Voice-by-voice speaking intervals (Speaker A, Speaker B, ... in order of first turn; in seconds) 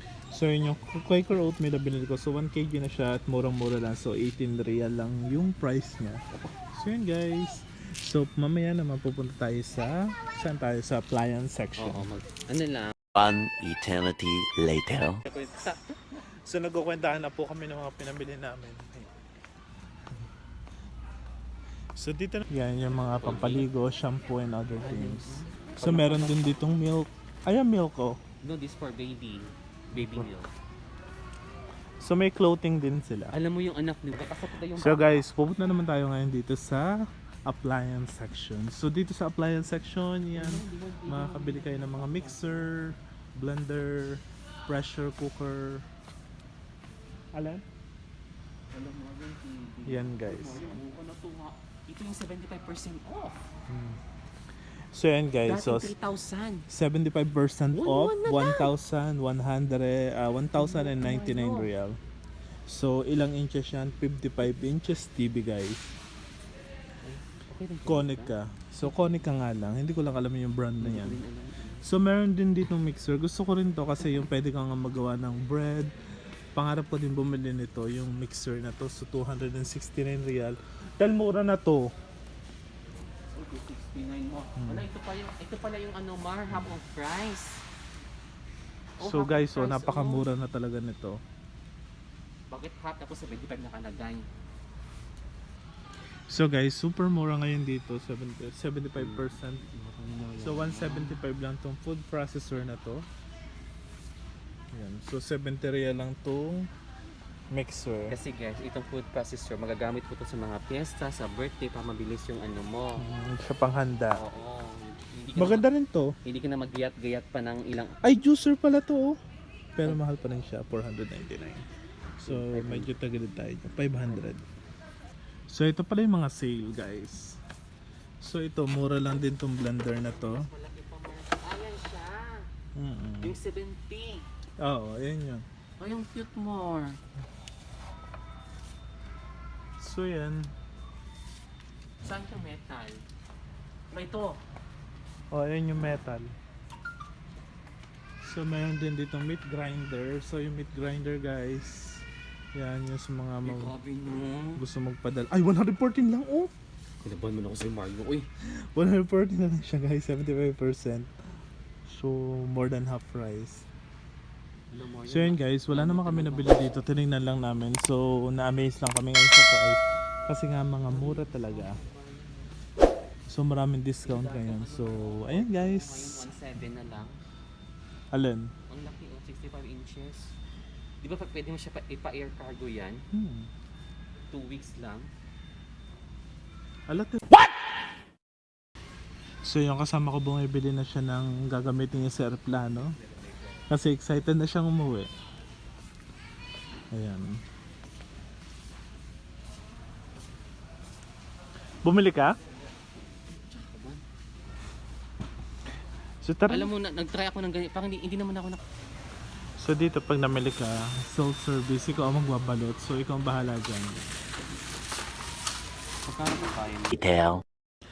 Speaker A: 0.3-12.1, 16.1-19.1, 21.9-28.2, 29.9-30.3, 32.0-33.3, 34.7-45.8, 47.3-47.6, 49.9-50.8, 53.7-54.0, 54.7-55.9, 56.7-62.0, 62.7-65.8, 67.9-71.2, 71.8-75.9, 76.5-81.9, 84.5-84.9, 89.0-91.2, 96.3-99.6, 100.4-103.0, 104.7-106.7, 107.5-108.2, 113.0-114.2, 115.3-116.1, 118.0-119.2, 119.8-121.7, 122.2-124.4, 125.5-127.4, 128.2-130.5, 132.8-133.4, 134.6-135.4, 139.8-140.5, 145.3-146.3, 148.2-153.7, 154.6-156.5, 158.7-161.1, 161.9-163.6, 165.1-171.8, 173.3-176.2, 178.1-178.5, 183.1-183.5, 186.9-187.2, 189.4-192.9, 193.7-195.1, 196.9-197.4, 201.8-202.3, 206.2-206.7, 209.6-214.0
Speaker B: 11.8-13.1, 15.3-15.9, 23.1-23.7, 24.8-26.6, 28.4-30.5, 33.3-35.3, 40.3-42.8, 48.7-53.5, 55.4-56.7, 57.7-58.7, 60.5-61.7, 67.0-69.3, 70.8-71.9, 83.3-87.6, 89.0-90.2, 92.5-94.2, 98.9-101.2, 108.1-113.0, 114.2-115.7, 116.2-118.0, 122.2-122.9, 124.0-124.5, 129.9-132.5, 133.2-134.3, 135.8-137.0, 142.0-143.1, 143.9-144.4, 153.4-154.6, 157.0-158.3, 164.7-166.9, 170.8-172.6, 174.0-177.2, 178.7-180.3, 181.0-183.0, 184.3-185.1, 203.3-204.0, 206.5-208.6, 216.0-217.0
Speaker C: 13.1-15.2, 216.9-217.4